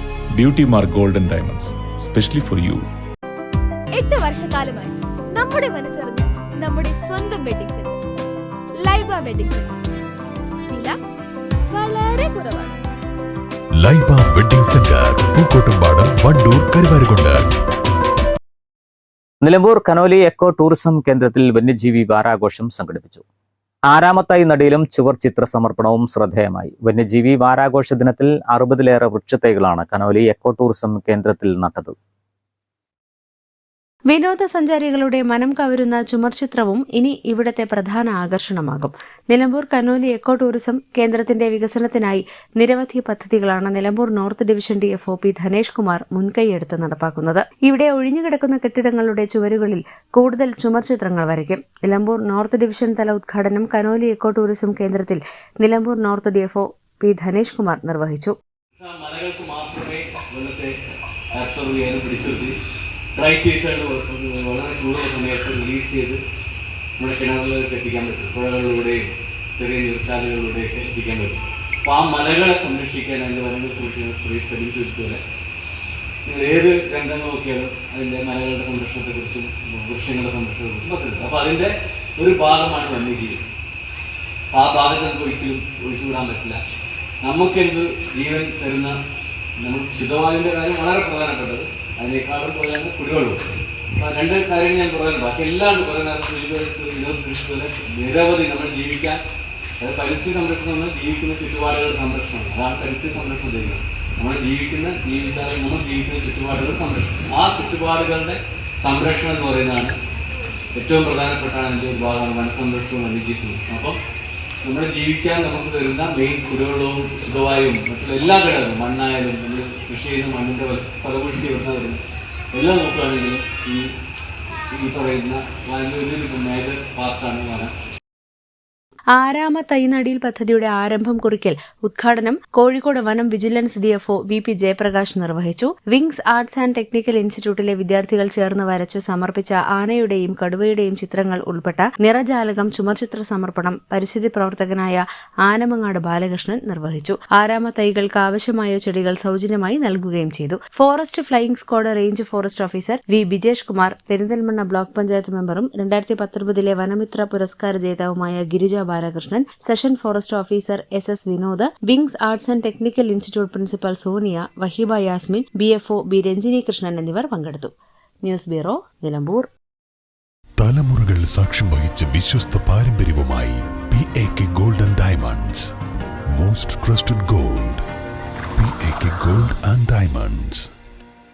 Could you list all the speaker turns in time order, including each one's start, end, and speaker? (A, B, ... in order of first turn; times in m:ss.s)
0:00.3-0:02.9 A
0:04.0-0:08.0 B
0:08.8-0:09.8 B
0:10.7-0:11.0 B
0:11.7-0:12.8 B
0:13.8-0:17.5 C
0:19.4-0:23.2 D
0:23.9-0:32.0 D
0:34.1-0:58.4 E
0:58.8-1:00.7 F
1:01.3-1:02.5 F
1:03.2-1:06.2 F
1:07.0-1:15.2 F
1:16.2-1:23.4 F
1:24.5-1:26.6 F
1:27.2-1:29.0 F
1:29.6-1:33.4 F
1:34.0-1:39.2 F
1:39.8-1:49.9 F
1:50.8-1:54.0 F
1:54.6-2:02.0 F
2:02.5-2:03.8 F
2:04.7-2:07.7 F
2:09.1-2:49.5 E
2:50.6-2:55.7 C
2:56.3-2:57.8 C
2:58.6-3:00.7 C